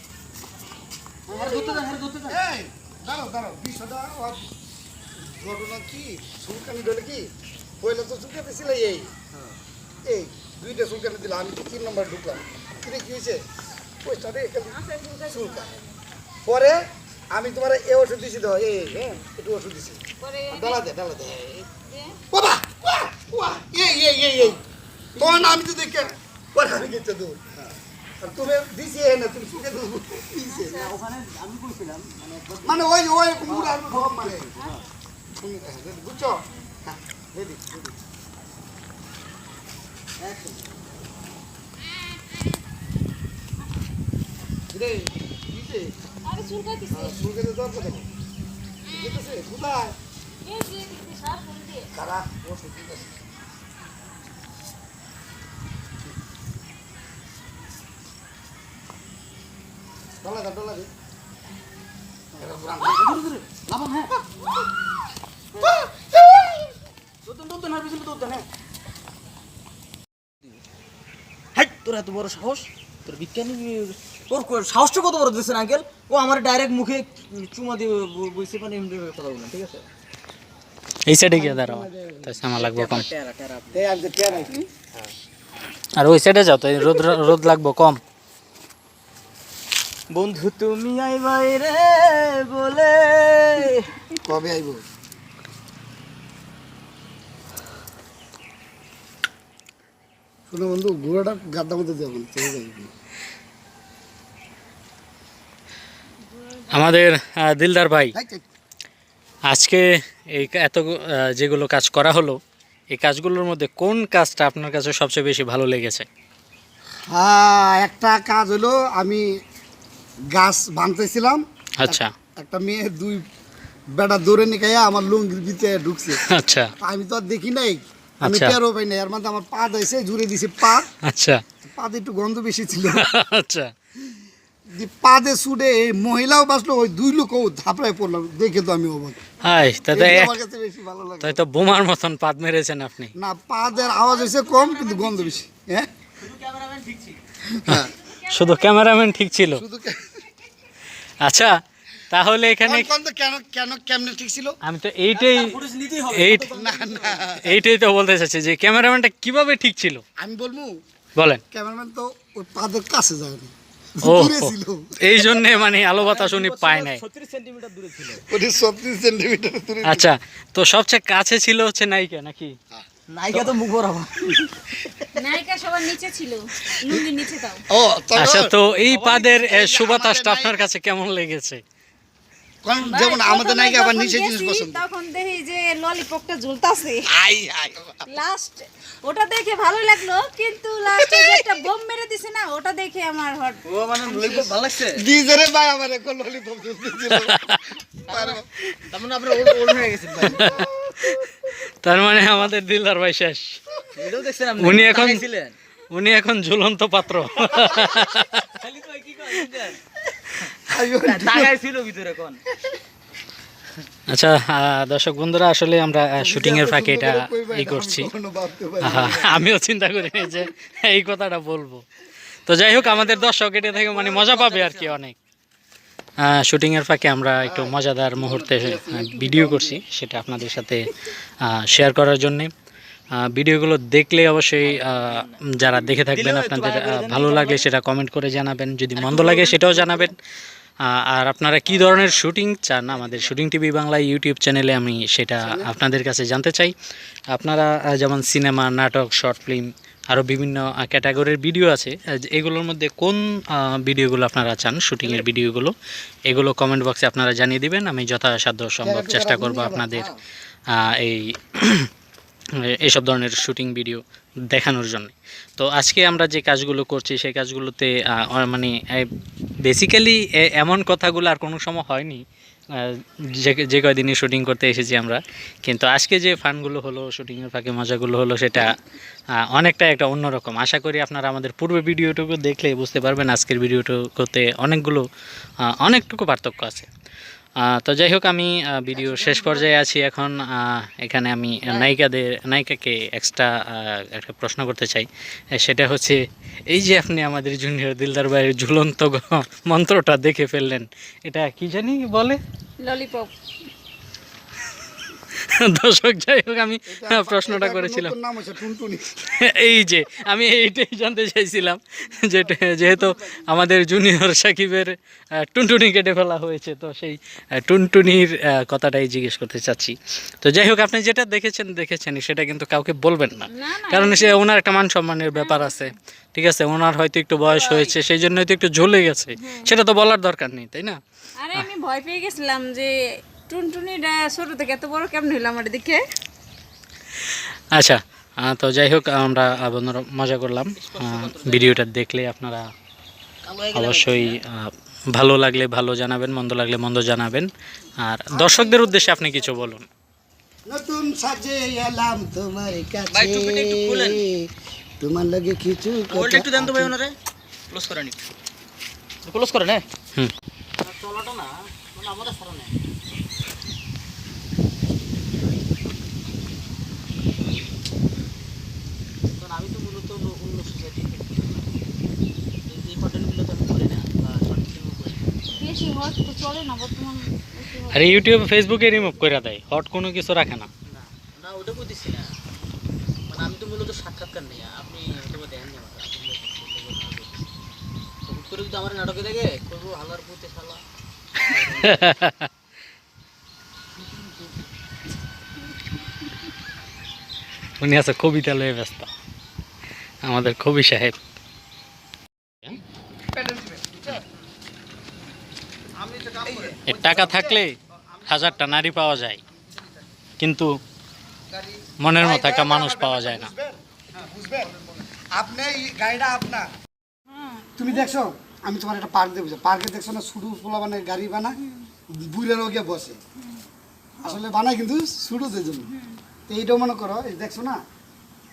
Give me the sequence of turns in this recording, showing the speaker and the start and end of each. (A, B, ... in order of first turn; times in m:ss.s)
0:01.3-0:02.4 A
0:01.3-0:04.5 B
0:05.3-0:07.3 B
0:07.8-0:09.1 B
0:10.0-0:13.4 B
0:14.0-0:15.7 B
0:14.7-0:16.0 C
0:16.5-0:21.7 B
0:20.2-0:20.8 C
0:21.7-0:22.2 C
0:22.3-0:24.6 B
0:25.2-0:25.6 A
0:25.2-0:27.4 B
0:28.2-0:30.9 B
0:30.5-0:31.0 C
0:30.7-0:34.8 A
0:32.6-0:34.5 B
0:35.3-0:37.9 B
0:40.2-0:40.6 A
0:44.7-0:45.9 B
0:46.2-0:47.2 C
0:46.9-0:48.1 B
0:48.9-0:50.0 B
0:50.4-0:51.9 C
0:51.9-0:53.1 B
1:00.2-1:00.9 B
1:02.4-1:03.2 B
1:02.8-1:04.1 A
1:05.7-1:06.5 B
1:07.2-1:08.5 A
1:11.6-1:19.8 A
1:21.1-1:23.1 D
1:21.3-1:22.4 B
1:22.6-1:23.8 A
1:23.7-1:24.7 B
1:26.0-1:28.0 D
1:30.1-1:33.8 A
1:34.2-1:34.8 B
1:40.5-1:42.9 B
1:46.7-1:48.2 D
1:48.1-1:48.4 B
1:49.5-1:52.4 D
1:52.9-1:56.1 D
1:57.1-1:59.3 B
2:00.3-2:03.2 B
2:01.8-2:02.1 D
2:04.0-2:06.2 B
2:06.2-2:06.7 D
2:06.8-2:10.9 B
2:08.2-2:08.6 D
2:11.0-2:11.4 D
2:11.6-2:13.0 B
2:12.9-2:13.7 D
2:14.8-2:19.2 B
2:19.4-2:20.4 D
2:19.9-2:21.4 B
2:21.2-2:23.1 D
2:23.2-2:25.9 B
2:23.8-2:25.4 A
2:26.2-2:27.2 A
2:27.5-2:27.9 B
2:27.7-2:29.6 D
2:29.5-2:30.1 B
2:31.2-2:31.5 D
2:32.1-2:32.9 D
2:32.6-2:34.6 B
2:34.6-2:36.6 D
2:35.1-2:37.3 A
2:36.5-2:37.6 B
2:37.3-2:40.0 D
2:40.2-2:40.7 B
2:41.2-2:41.4 D
2:41.5-2:45.2 B
2:44.0-2:47.0 D
2:45.9-2:48.2 A
2:48.2-2:50.1 B
2:49.9-2:52.5 D
2:53.1-2:55.0 A
2:53.3-2:53.6 D
2:55.2-2:57.6 C
2:57.7-3:00.7 B
2:58.2-3:01.6 D
3:02.6-3:04.8 B
3:02.8-3:07.1 C
3:07.1-3:08.1 B
3:08.1-3:14.5 C
3:10.9-3:11.6 B
3:13.6-3:15.0 A
3:14.9-3:18.6 B
3:17.1-3:17.7 D
3:18.1-3:20.4 A
3:19.3-3:21.5 B
3:20.2-3:20.7 D
3:21.8-3:23.6 D
3:24.0-3:25.6 A
3:24.6-3:25.3 D
3:25.9-3:28.5 D
3:28.4-3:29.8 A
3:30.7-3:31.6 B
3:31.0-3:32.4 A
3:34.1-3:38.1 D
3:36.2-3:39.4 B
3:38.8-3:41.8 D
3:42.5-3:45.2 D
3:42.8-3:45.0 A
3:46.2-3:50.9 D
3:47.4-3:49.8 B
3:51.4-3:52.5 D
3:53.2-4:00.2 D
3:54.6-3:57.7 A
3:59.0-4:00.1 A
4:00.8-4:06.7 D
4:01.7-4:03.4 A
4:05.4-4:05.7 B
4:07.3-4:15.7 D
4:16.3-4:20.1 D
4:18.8-4:19.9 B
4:20.7-4:21.9 D
4:22.6-4:29.1 D
4:29.6-4:32.2 D
4:32.7-4:38.8 D
4:39.5-4:45.0 D
4:45.6-4:46.9 D
4:47.6-4:56.2 D
4:49.0-4:49.8 A
4:51.6-4:51.9 A
4:56.7-5:02.4 D
5:02.8-5:03.3 C
5:05.3-5:08.2 D
5:06.9-5:09.0 B
5:09.1-5:14.9 D
5:12.7-5:13.1 B
5:15.5-5:31.0 D
5:23.5-5:24.2 C
5:25.4-5:25.7 C
5:27.4-5:28.0 A
5:29.4-5:29.8 C
5:31.4-5:36.1 C
5:37.2-5:42.6 D
5:40.8-5:41.8 A
5:43.4-5:44.4 A
5:43.7-5:47.5 D
5:48.0-5:49.9 D
5:48.4-5:49.7 A
5:50.7-5:54.5 B
5:53.1-5:54.2 A
5:55.0-5:57.0 B
5:56.1-5:57.1 A
5:57.7-5:58.2 A
5:59.2-5:59.8 A
6:00.8-6:02.8 A
6:09.3-6:11.7 A
6:12.6-6:15.8 A
6:15.6-6:19.3 C
6:17.9-6:20.7 D
6:20.9-6:22.3 A
6:23.3-6:27.4 A
6:28.3-6:30.8 A
6:31.4-6:32.1 A
6:31.8-6:32.5 D
6:37.8-6:39.1 D
6:40.2-6:41.2 D
6:43.3-6:44.3 B
6:46.0-6:47.6 B
6:46.8-6:49.4 D
6:48.1-6:50.0 B
6:50.4-6:50.8 D
6:51.5-6:56.7 B
6:52.0-6:53.5 D
6:57.3-6:57.9 C
6:57.8-7:01.6 B
7:01.6-7:01.9 C
7:02.1-7:03.2 B
7:04.2-7:05.9 B
7:05.9-7:06.2 C
7:06.5-7:07.8 B